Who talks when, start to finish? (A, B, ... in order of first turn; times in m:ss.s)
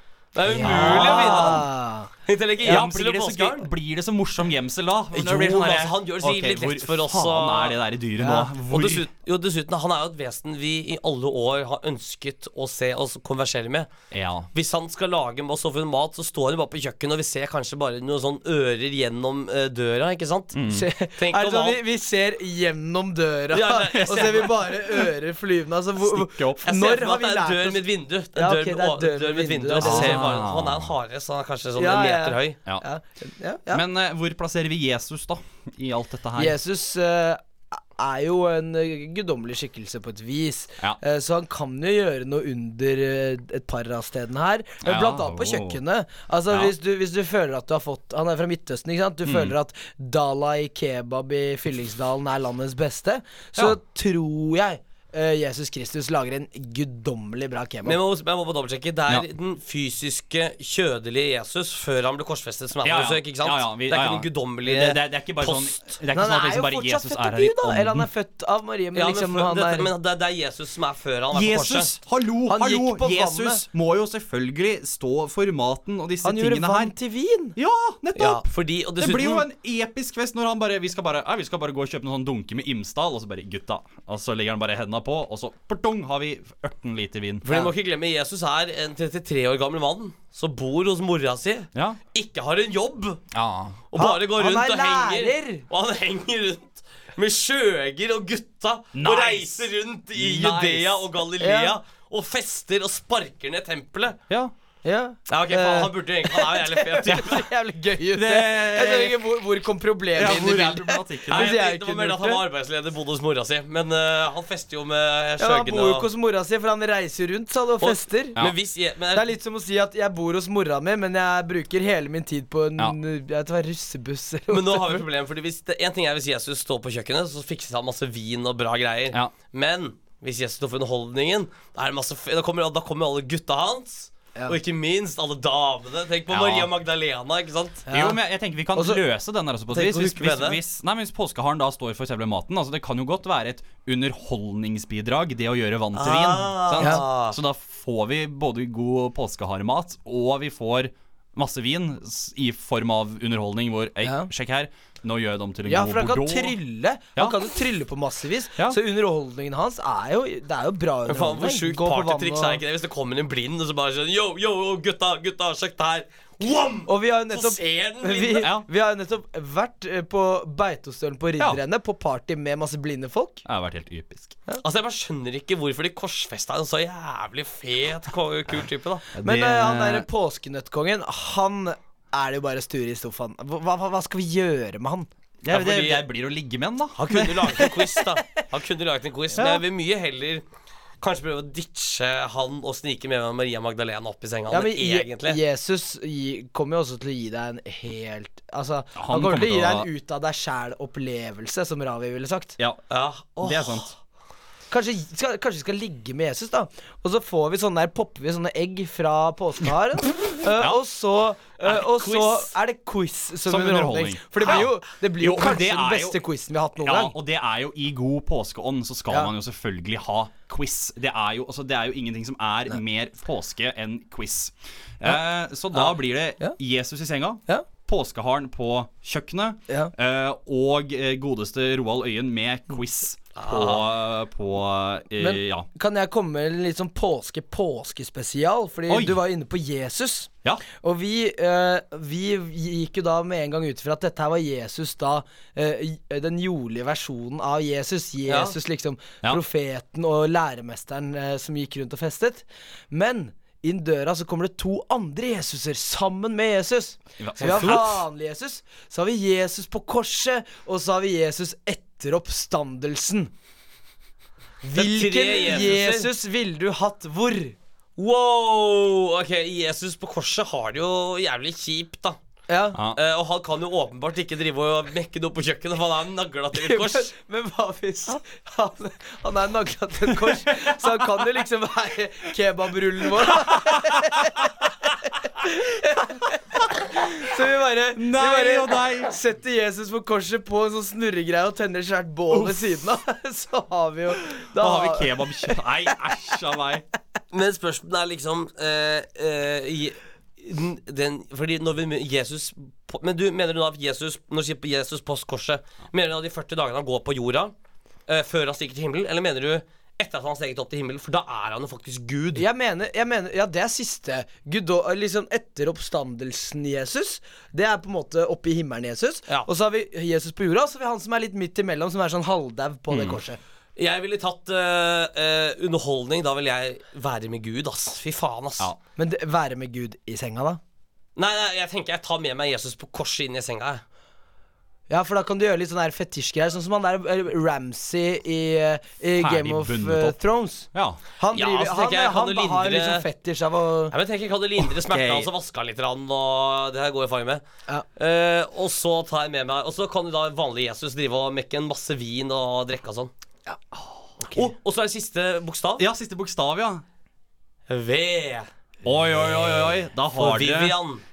0:00.3-0:01.6 A
0:00.5-0:01.6 B
0:00.5-0:02.1 C
0:02.2-0:03.7 A
0:02.6-0:09.1 B
0:05.1-0:07.8 A
0:08.2-0:08.5 C
0:08.7-0:13.9 A
0:14.1-0:14.5 B
0:14.5-0:20.6 A
0:20.5-0:20.9 B
0:20.7-0:30.4 C
0:21.2-0:21.8 A
0:23.5-0:24.5 A
0:23.9-0:24.5 B
0:26.0-0:26.6 B
0:26.6-0:32.6 A
0:29.8-0:30.9 B
0:31.8-0:33.8 C
0:33.7-0:36.6 B
0:36.4-0:58.0 C
0:44.8-0:45.8 B
0:46.5-0:46.7 B
0:49.2-0:49.5 B
0:57.8-1:05.0 A
1:02.8-1:08.1 B
1:05.4-1:09.9 C
1:08.9-1:11.9 A
1:11.3-1:16.9 B
1:12.5-1:13.6 C
1:16.2-1:17.6 C
1:17.6-1:27.4 B
1:18.2-1:19.4 A
1:27.4-1:33.2 A
1:33.3-1:33.8 B
1:33.9-1:44.2 A
1:34.0-1:35.6 C
1:38.9-1:41.1 B
1:41.4-1:41.8 C
1:44.8-1:52.4 C
1:45.3-1:47.3 A
1:47.1-1:47.5 B
1:48.1-1:49.2 B
1:50.1-1:51.6 B
1:51.3-1:56.1 A
1:55.4-1:58.4 C
1:57.8-1:59.3 A
1:59.1-2:05.0 C
2:04.5-2:17.8 A
2:16.3-2:16.7 B
2:17.9-2:18.2 C
2:17.9-2:36.5 B
2:18.7-2:19.0 C
2:19.7-2:20.6 A
2:25.9-2:27.4 A
2:34.0-2:34.3 C
2:35.7-2:42.6 C
2:41.1-2:48.4 A
2:46.8-2:53.4 C
2:48.4-2:48.6 B
2:53.4-2:54.4 B
2:54.6-2:59.0 A
2:59.1-3:00.0 B
2:59.2-3:05.1 C
3:05.4-3:07.7 B
3:05.5-3:06.0 A
3:06.9-3:10.4 A
3:09.4-3:09.6 B
3:11.0-3:15.4 A
3:14.5-3:22.6 C
3:19.0-3:19.9 B
3:22.9-3:23.9 A
3:23.4-3:23.9 B
3:24.7-3:37.1 C
3:30.6-3:30.8 B
3:31.6-3:32.5 A
3:33.5-3:36.2 B
3:36.8-3:55.7 B
3:53.4-3:53.8 A
3:55.2-4:23.3 C
3:58.9-3:59.2 B
4:08.3-4:08.6 A
4:17.2-4:17.9 B
4:17.4-4:17.8 A
4:24.6-4:27.6 C
4:24.7-4:26.1 A
4:28.0-4:32.2 A
4:32.5-4:32.8 C
4:32.9-4:37.1 A
4:36.5-4:44.7 C
4:40.3-4:40.8 B
4:43.2-4:44.6 B
4:45.4-4:55.6 C
4:48.0-4:49.1 B
4:54.4-4:56.8 B
4:57.3-5:07.5 A
5:08.1-5:12.4 A
5:12.3-5:23.4 C
5:22.9-5:23.2 B
5:23.8-5:28.7 A
5:29.0-5:30.6 C
5:31.2-5:33.8 A
5:34.9-5:43.9 C
5:39.2-5:40.2 B
5:40.7-5:41.0 B
5:41.3-5:43.0 A
5:43.9-5:47.4 A
5:44.6-5:45.3 B
5:48.0-5:53.1 A
5:53.7-5:54.5 B
5:54.2-5:54.5 C
5:54.6-5:55.8 A
5:55.8-5:56.8 B
5:57.7-5:58.5 A
5:58.8-6:00.8 B
5:59.1-6:01.0 A